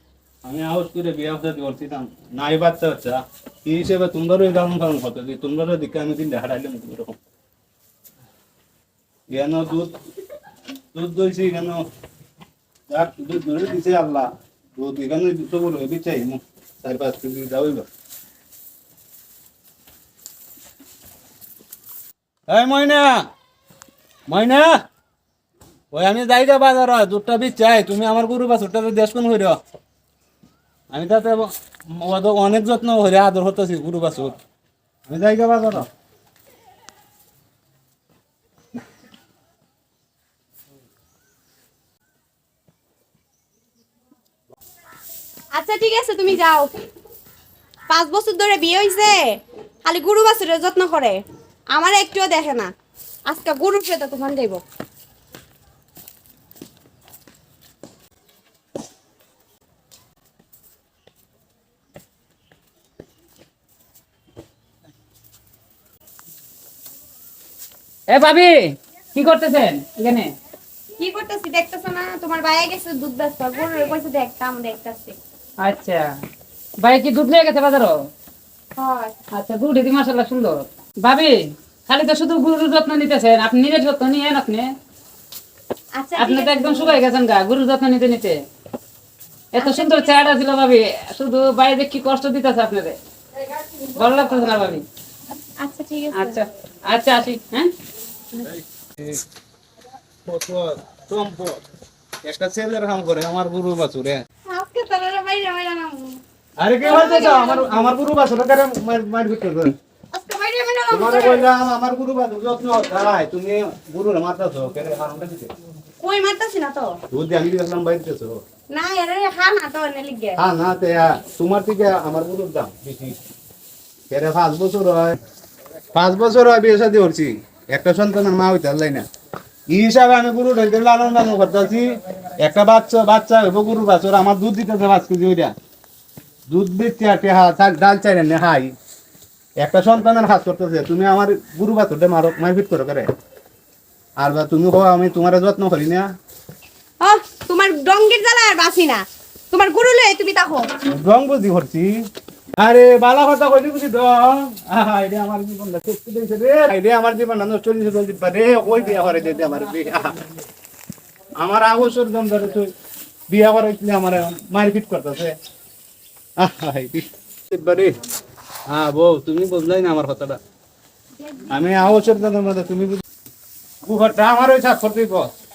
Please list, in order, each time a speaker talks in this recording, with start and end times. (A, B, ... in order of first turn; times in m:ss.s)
0:00.4-0:07.2 A
0:09.3-0:09.9 A
0:10.9-0:11.8 A
0:12.9-0:17.9 A
0:22.5-0:23.3 A
0:24.3-0:24.7 A
0:25.9-0:29.6 A
0:30.9-0:34.4 A
0:35.1-0:35.8 A
0:45.5-0:46.8 B
0:47.9-0:52.7 B
0:53.3-0:54.6 B
1:08.1-1:10.3 C
1:11.0-1:15.2 B
1:15.6-1:16.1 C
1:16.8-1:18.0 C
1:18.8-1:19.1 B
1:19.3-1:24.7 C
1:25.9-1:27.0 B
1:26.2-1:28.4 C
1:29.5-1:33.0 C
1:29.6-1:30.3 B
1:33.8-1:34.8 C
1:35.6-1:36.4 B
1:36.1-1:37.7 C
1:38.4-1:39.2 A
1:40.2-1:41.6 A
1:42.2-1:44.2 A
1:44.5-1:46.2 B
1:46.6-1:49.7 A
1:46.8-1:47.9 B
1:50.1-1:51.5 B
1:50.9-1:55.5 A
1:56.0-1:57.0 B
1:57.1-1:58.4 A
1:58.7-2:00.4 B
2:00.4-2:03.2 A
2:04.1-2:05.2 A
2:05.9-2:09.0 A
2:09.7-2:15.5 A
2:16.5-2:18.7 A
2:19.6-2:23.1 A
2:24.2-2:26.1 A
2:27.0-2:30.7 B
2:30.9-2:32.0 A
2:32.6-2:40.1 A
2:41.4-2:42.7 A
2:43.3-2:45.4 A
2:46.4-2:48.0 A
2:48.7-2:50.4 A
2:51.5-2:53.0 A
2:53.8-2:55.3 A